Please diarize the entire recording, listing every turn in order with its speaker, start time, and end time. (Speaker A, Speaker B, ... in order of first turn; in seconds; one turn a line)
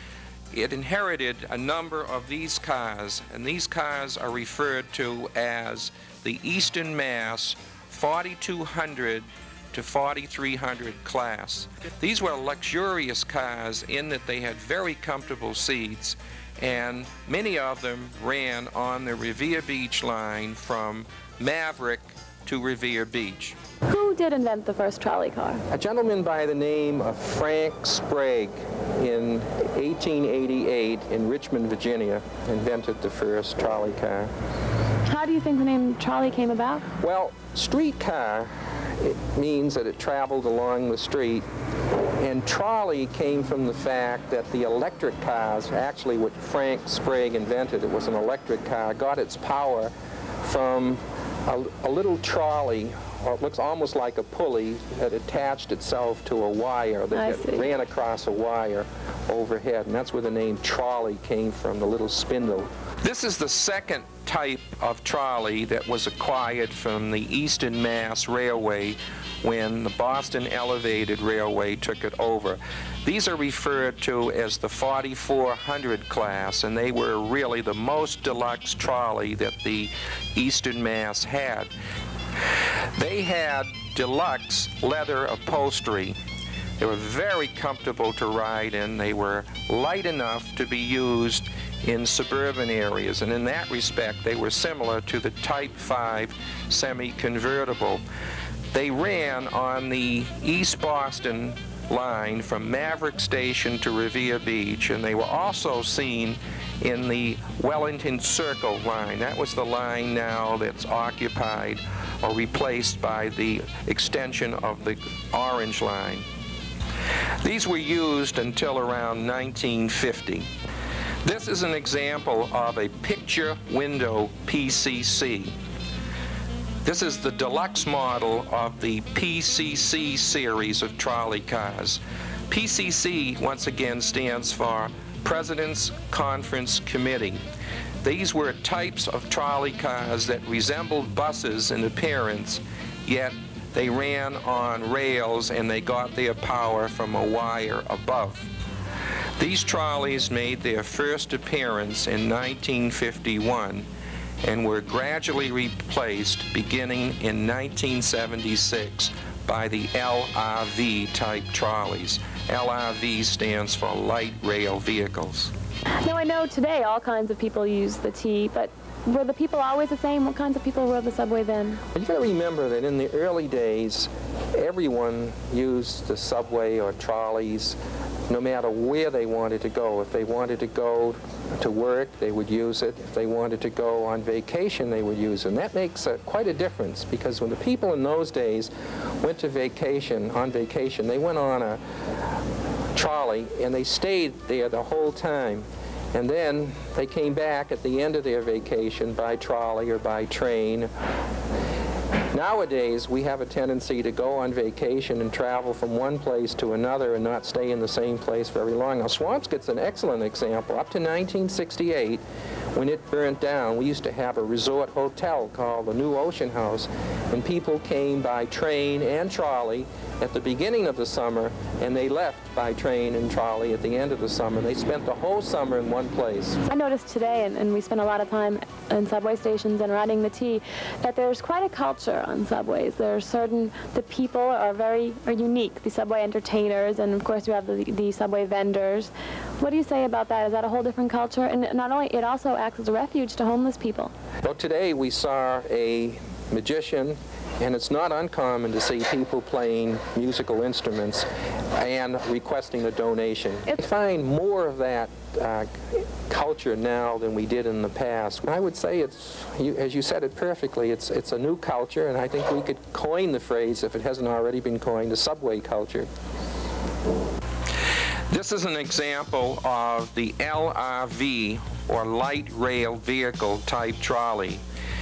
Speaker A: 0.5-23.6
Speaker B: 23.9-25.6
Speaker A: 25.7-34.3
Speaker B: 35.1-36.8
Speaker A: 37.0-41.5
Speaker A: 42.2-81.7
Speaker B: 57.1-57.7
Speaker A: 83.0-86.2
Speaker A: 86.8-98.0
Speaker A: 98.7-116.3
Speaker A: 117.4-120.5
Speaker A: 121.2-125.5
Speaker A: 126.8-137.4
Speaker A: 138.0-148.5
Speaker A: 149.4-153.9
Speaker A: 154.4-165.5
Speaker B: 166.0-171.8
Speaker A: 171.9-191.8
Speaker A: 192.9-200.9
Speaker A: 202.3-212.2
Speaker A: 212.8-226.6
Speaker B: 226.7-244.1
Speaker A: 244.4-266.1
Speaker A: 268.3-274.6